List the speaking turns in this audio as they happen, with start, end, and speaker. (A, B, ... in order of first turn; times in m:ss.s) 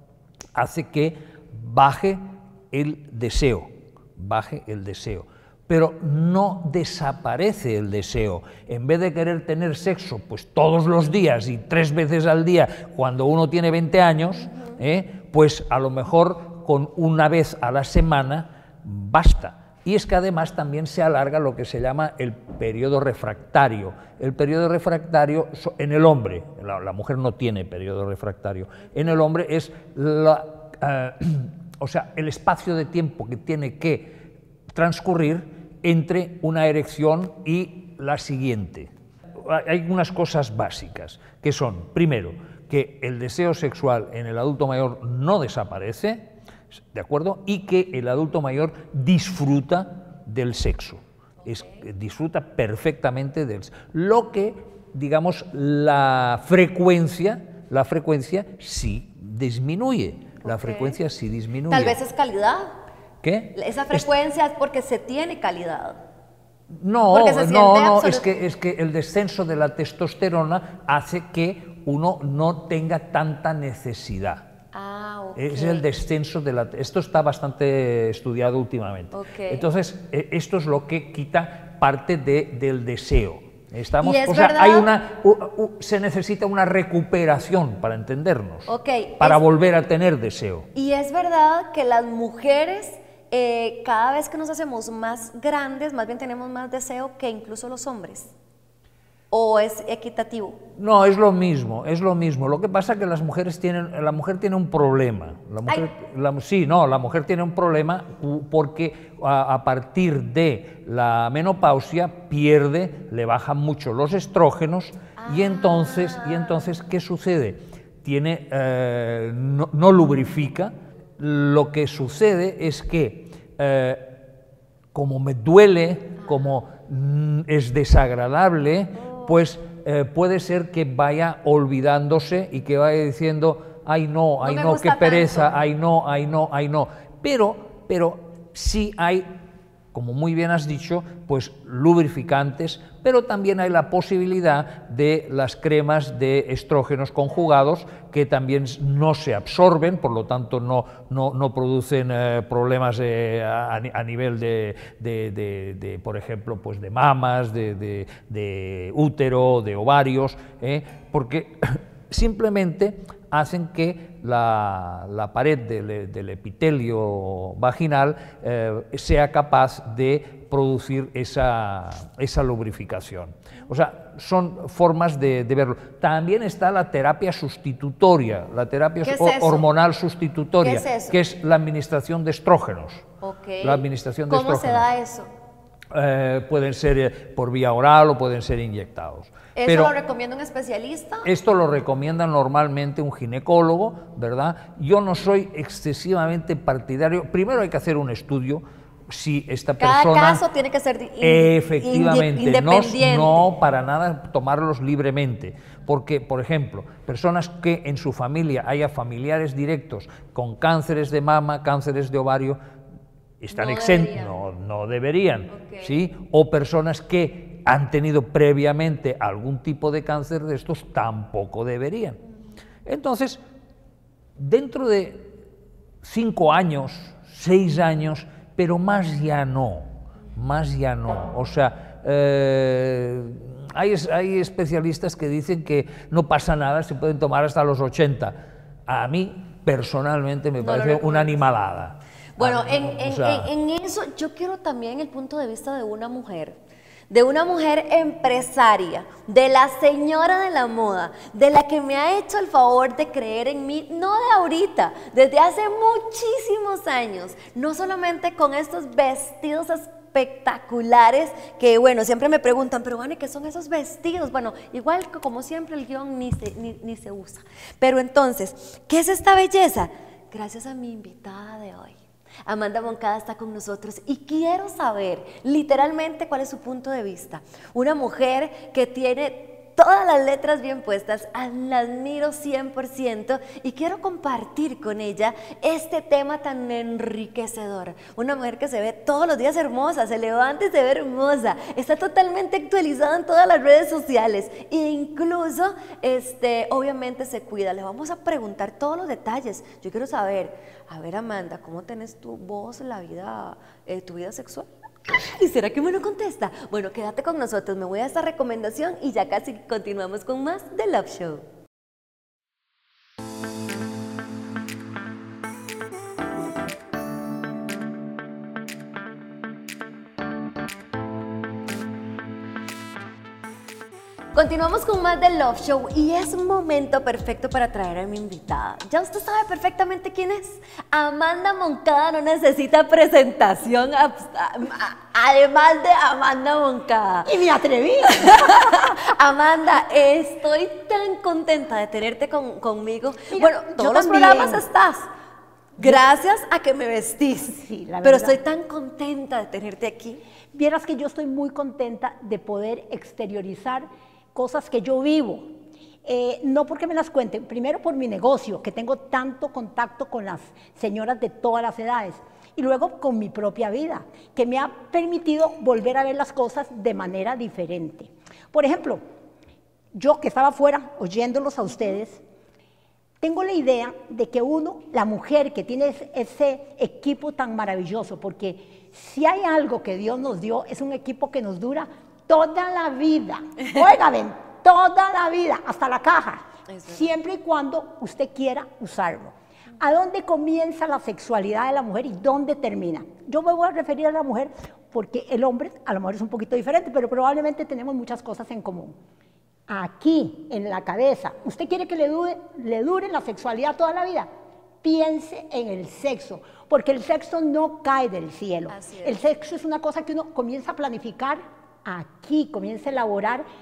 0:00.6-0:34.2 A
0:34.7-1:02.0 A
0:51.4-0:51.8 B
1:00.4-1:01.0 B
1:01.7-1:02.7 B
1:03.2-1:04.1 A
1:03.5-1:06.0 B
1:06.7-1:14.5 A
1:07.1-1:08.4 B
1:14.7-1:15.9 B
1:15.4-1:30.7 A
1:19.1-1:19.6 B
1:24.0-1:24.9 B
1:28.7-1:29.4 B
1:30.7-1:38.3 B
1:39.3-1:40.6 B
1:40.8-2:04.2 A
1:55.2-1:56.7 B
2:04.9-2:19.3 A
2:14.4-2:15.5 B
2:19.9-3:03.1 A
2:59.0-2:59.7 B
3:00.6-3:01.2 B
3:03.2-3:05.3 B
3:03.6-3:04.9 A
3:05.9-3:09.9 A
3:09.6-3:11.3 B
3:11.2-3:20.4 A
3:19.8-3:23.5 B
3:21.2-3:32.6 A
3:33.4-3:42.2 A
3:33.5-3:34.4 B
3:35.5-3:36.0 B
3:42.9-3:43.4 A
3:44.4-3:45.3 A
3:46.0-3:58.4 A
3:58.9-4:03.5 A
4:00.6-4:01.4 B
4:02.4-4:06.6 B
4:07.1-5:11.4 B
5:24.3-5:37.4 B
5:37.2-5:38.5 C
5:38.0-5:45.1 B
5:43.3-5:44.6 C
5:45.8-5:46.0 C
5:45.8-5:50.2 B
5:47.5-5:48.4 C
5:50.5-5:55.5 C
5:56.0-6:09.0 C
6:10.0-6:12.2 C
6:13.2-6:38.9 C
6:26.7-6:27.1 B
6:39.7-6:44.3 C
6:44.8-6:53.4 C
6:48.7-6:49.2 B